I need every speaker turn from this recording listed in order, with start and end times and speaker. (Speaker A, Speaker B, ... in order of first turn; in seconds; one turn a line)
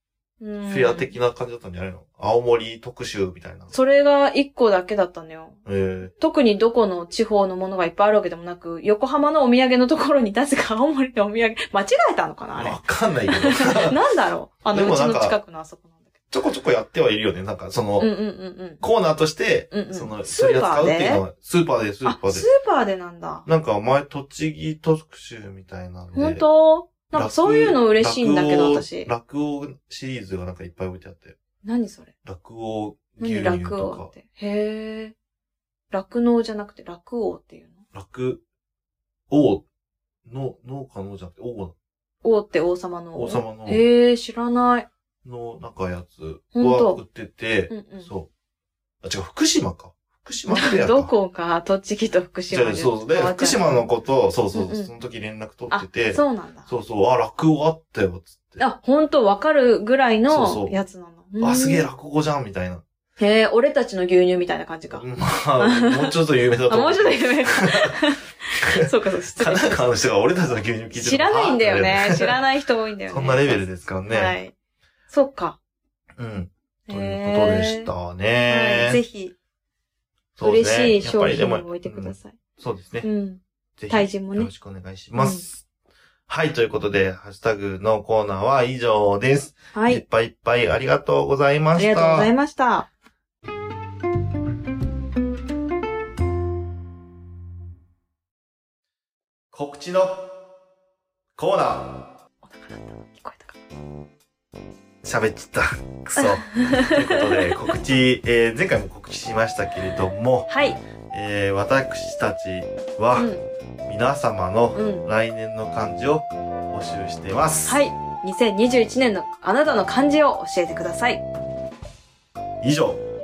Speaker A: 0.4-1.1
Speaker B: 0.7-3.7
Speaker A: 3.7-5.6
Speaker B: 5.7-6.1
Speaker A: 6.2-16.1
Speaker B: 12.6-14.0
Speaker B: 14.7-15.4
Speaker B: 16.3-18.1
Speaker A: 18.0-18.8
Speaker B: 18.8-22.5
Speaker A: 19.7-21.2
Speaker A: 22.1-23.5
Speaker B: 23.5-26.4
Speaker A: 26.1-29.1
Speaker B: 27.1-31.4
Speaker A: 31.6-32.1
Speaker B: 32.2-34.1
Speaker A: 33.2-35.1
Speaker A: 35.9-37.8
Speaker B: 37.9-38.4
Speaker B: 39.3-39.6
Speaker B: 40.2-41.8
Speaker A: 42.2-44.9
Speaker B: 43.1-43.8
Speaker B: 45.2-48.3
Speaker A: 46.5-47.0
Speaker A: 47.7-48.1
Speaker B: 49.0-51.1
Speaker A: 50.5-53.8
Speaker B: 52.5-58.6
Speaker A: 54.5-54.9
Speaker A: 55.7-56.7
Speaker A: 58.6-61.9
Speaker B: 60.3-60.7
Speaker B: 61.4-62.8
Speaker A: 63.2-65.0
Speaker B: 64.9-68.0
Speaker A: 65.6-66.2
Speaker A: 66.7-69.8
Speaker B: 68.6-72.3
Speaker A: 70.9-74.5
Speaker B: 73.1-74.3
Speaker A: 75.1-75.6
Speaker B: 76.2-79.0
Speaker A: 76.9-77.9
Speaker A: 78.5-79.3
Speaker B: 80.4-83.1
Speaker A: 80.4-82.4
Speaker A: 83.0-84.5
Speaker B: 83.8-85.6
Speaker A: 85.2-85.5
Speaker B: 86.3-92.3
Speaker A: 89.7-90.0
Speaker A: 91.8-92.9
Speaker B: 99.5-100.3
Speaker B: 101.4-102.0
Speaker A: 102.4-103.6
Speaker B: 105.0-110.5
Speaker A: 106.2-107.7
Speaker A: 110.5-110.8
Speaker B: 111.1-113.3
Speaker A: 113.2-113.4
Speaker B: 113.9-117.8
Speaker A: 114.8-115.1
Speaker A: 117.7-121.2
Speaker B: 122.6-123.0